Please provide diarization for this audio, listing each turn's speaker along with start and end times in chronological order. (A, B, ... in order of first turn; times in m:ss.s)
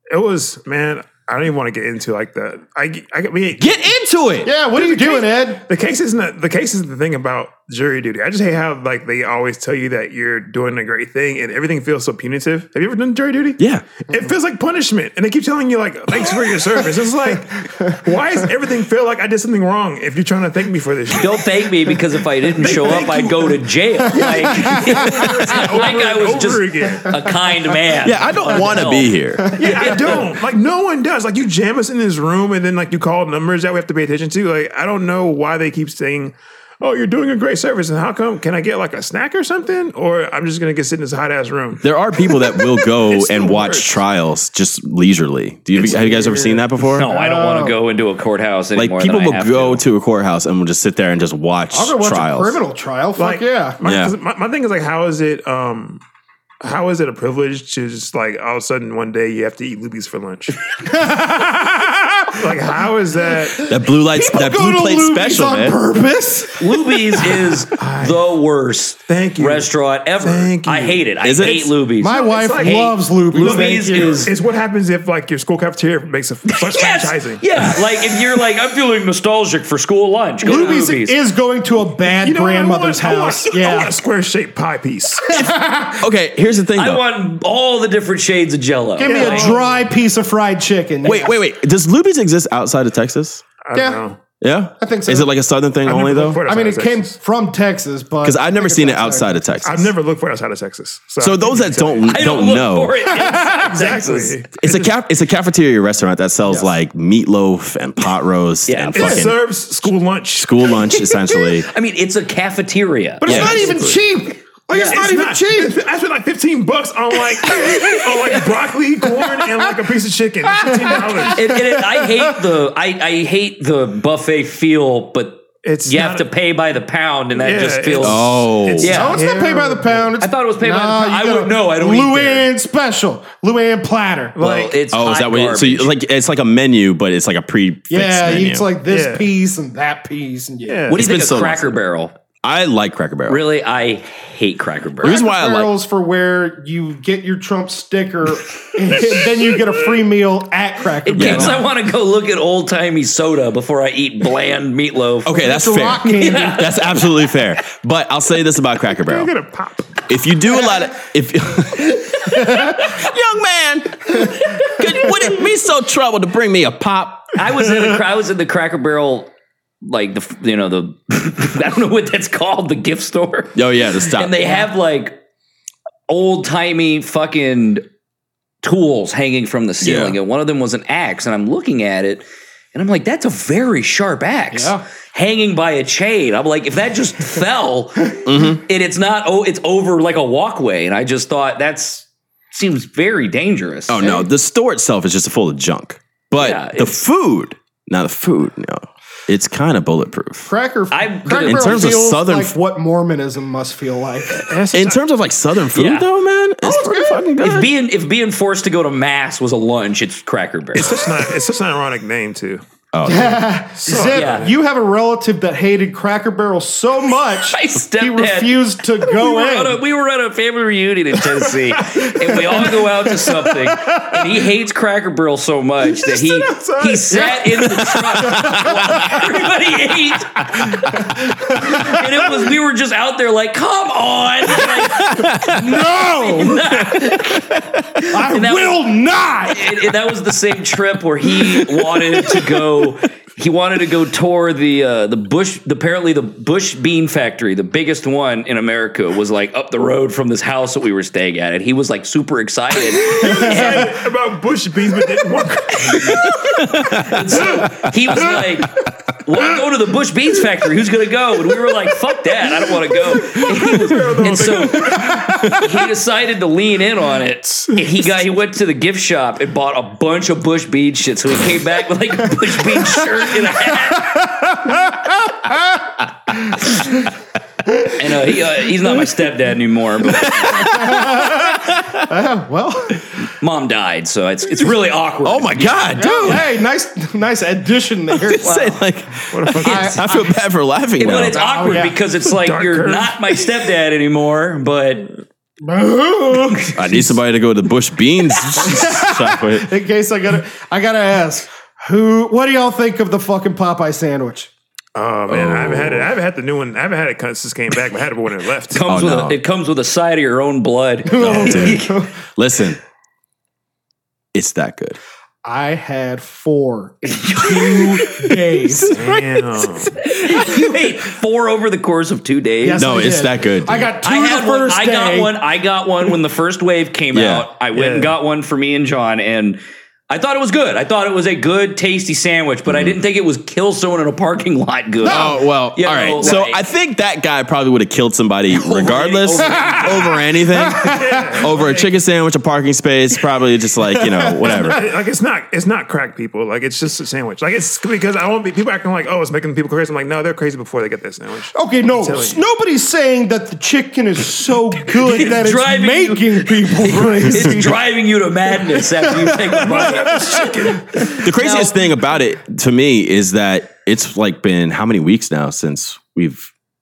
0:00.1-0:03.8 A
0:03.6-0:04.5 B
0:04.4-0:05.6 C
0:04.7-0:21.5 A
0:13.6-0:13.8 B
0:21.1-0:29.1 D
0:22.5-0:23.6 A
0:24.1-0:27.1 A
0:24.1-0:25.6 C
0:28.0-0:29.6 B
0:29.4-0:30.1 C
0:29.6-0:41.8 A
0:29.7-0:30.2 D
0:41.8-0:47.1 B
0:42.8-0:44.0 A
0:45.8-0:46.3 A
0:45.9-0:47.8 C
0:46.9-0:49.8 D
0:48.8-0:52.6 B
0:51.7-0:53.8 C
0:53.2-0:56.0 A
0:53.8-0:54.1 B
0:56.6-1:00.6 A
1:00.8-1:02.4 C
1:02.3-1:03.7 A
1:03.6-1:07.6 C
1:03.6-1:05.8 B
1:06.6-1:14.3 D
1:07.8-1:08.2 A
1:09.1-1:17.7 A
1:11.2-1:11.7 B
1:12.0-1:14.3 C
1:16.5-1:21.1 D
1:20.4-1:24.0 C
1:20.5-1:20.8 A
1:22.1-1:25.4 A
1:25.2-1:26.0 C
1:25.3-1:27.0 B
1:26.8-1:29.6 D
1:29.0-1:31.4 C
1:29.0-1:29.9 A
1:31.0-1:33.4 B
1:33.6-1:34.2 A
1:33.7-1:34.0 C
1:34.4-1:36.4 B
1:34.8-1:35.3 C
1:35.8-1:37.2 A
1:36.4-1:39.4 C
1:38.2-1:39.9 B
1:39.6-1:42.3 A
1:41.2-1:43.1 B
1:42.1-1:44.4 D
1:43.1-1:43.6 C
1:43.2-1:45.0 A
1:44.6-1:49.4 B
1:46.5-1:46.7 C
1:48.7-1:49.2 D
1:48.9-1:50.7 A
1:50.4-1:51.7 B
1:51.7-1:53.6 D
1:53.2-1:55.8 C
1:53.2-1:53.9 B
1:53.3-1:54.0 A
1:54.7-2:01.5 A
1:54.7-1:55.0 D
1:57.4-1:58.5 C
1:59.1-1:59.6 C
2:00.6-2:02.3 C
2:01.3-2:09.2 D
2:05.6-2:06.3 A
2:07.4-2:10.1 A
2:08.0-2:09.0 B
2:08.8-2:14.4 C
2:10.2-2:12.5 D
2:14.3-2:14.8 A
2:14.4-2:15.9 D
2:14.9-2:18.7 B
2:17.9-2:20.9 C
2:18.9-2:19.3 A
2:20.7-2:21.0 A
2:20.9-2:22.1 D
2:20.9-2:21.8 B
2:22.4-2:23.4 B
2:23.3-2:25.2 D
2:25.0-2:25.7 B
2:25.0-2:31.6 C
2:31.0-2:35.4 D
2:31.2-2:31.6 B
2:35.2-2:39.3 B
2:35.3-2:36.7 C
2:36.0-2:37.0 D
2:39.0-2:40.0 A
2:40.1-2:47.4 B
2:42.3-2:42.8 C
2:47.3-2:49.3 D
2:49.8-2:55.2 D
2:53.5-2:54.5 B
2:56.1-2:57.8 D
2:58.6-3:14.2 D
2:59.8-3:00.2 B
3:04.5-3:04.8 C
3:08.2-3:08.6 B
3:13.9-3:20.5 B
3:16.4-3:17.0 D
3:20.5-3:24.5 C
3:20.9-3:22.0 D
3:21.4-3:22.5 B
3:24.4-3:25.0 A
3:24.7-3:27.7 B
3:25.7-3:26.0 D
3:27.4-3:31.0 D
3:30.7-3:33.2 A
3:32.9-3:33.4 B
3:33.0-3:39.8 C
3:33.8-3:34.5 A
3:33.9-3:34.5 D
3:37.4-3:51.0 D
3:41.9-3:44.3 C
3:46.4-3:48.0 A
3:48.2-3:49.4 C
3:48.4-3:48.7 B
3:50.6-3:52.4 C
3:51.5-3:58.9 D
3:55.1-3:55.6 B
3:55.2-3:57.4 C
3:58.0-3:59.9 C
3:59.5-4:13.9 D
4:01.3-4:02.6 C
4:13.0-4:16.4 A
4:13.2-4:13.8 C
4:15.9-4:34.2 D
4:16.4-4:17.9 B
4:23.3-4:25.6 A
4:24.9-4:25.5 C
4:33.8-4:35.8 C
4:36.4-4:36.8 C
4:37.7-4:38.0 C
4:38.0-4:40.9 D
4:40.0-4:42.0 B
4:40.5-4:43.0 C
4:43.4-4:45.9 D
4:45.2-4:46.5 B
4:46.0-4:48.6 C
4:48.2-4:51.4 B
4:48.4-4:48.8 D
4:49.3-4:50.0 A
4:49.6-4:50.3 C
4:49.7-4:50.0 D
4:51.0-4:55.1 D
4:51.1-4:51.9 C
4:51.8-4:53.5 A
4:55.6-4:57.2 C
4:56.7-4:59.7 B
4:58.5-5:04.5 C
5:04.9-5:08.8 A
5:05.3-5:06.1 B
5:08.7-5:11.9 D
5:08.8-5:09.4 B
5:11.0-5:12.1 C
5:11.1-5:12.8 B
5:14.3-5:15.0 B
5:15.4-5:19.0 C
5:17.1-5:17.8 D
5:17.6-5:20.6 B
5:18.9-5:19.9 A
5:20.1-5:22.9 D
5:22.6-5:25.4 C
5:22.8-5:23.9 B
5:24.0-5:36.6 D
5:27.1-5:27.5 B
5:27.7-5:28.1 A
5:32.6-5:33.0 B
5:35.0-5:35.3 C
5:35.0-5:44.8 B
5:38.5-5:40.1 D
5:39.5-5:41.4 C
5:40.8-5:41.9 A
5:44.0-5:44.8 C
5:44.5-5:52.4 A
5:51.5-5:57.8 C
5:54.9-6:01.9 D
5:58.9-6:01.1 C
5:59.5-6:01.1 A
6:01.1-6:06.5 B